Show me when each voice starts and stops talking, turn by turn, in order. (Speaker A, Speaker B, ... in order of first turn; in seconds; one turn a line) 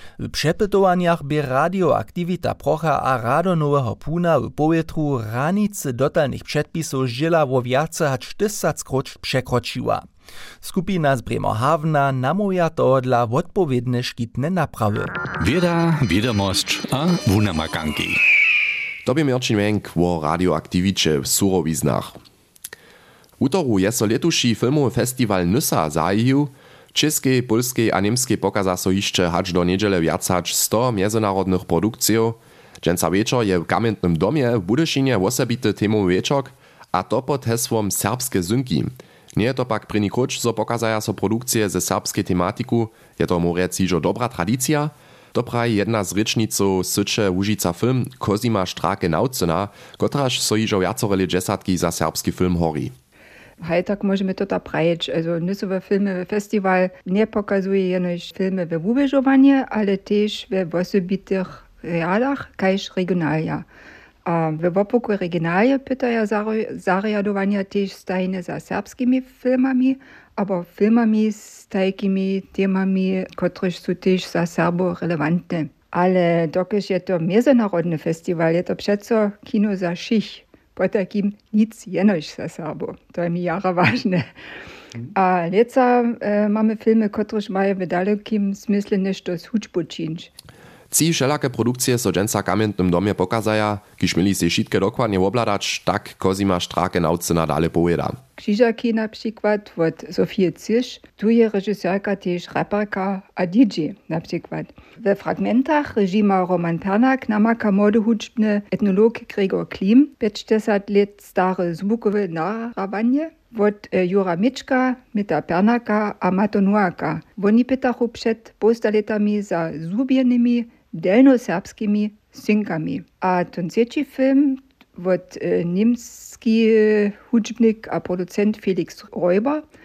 Speaker A: 0.2-10.1
Speaker A: 10.6-15.1
Speaker B: 15.4-18.2
Speaker C: 19.1-22.2
Speaker C: 23.4-52.9
Speaker D: 53.6-63.7
Speaker D: 64.3-84.3
Speaker D: 85.2-90.3
Speaker C: 90.9-98.2
Speaker D: 98.4-129.6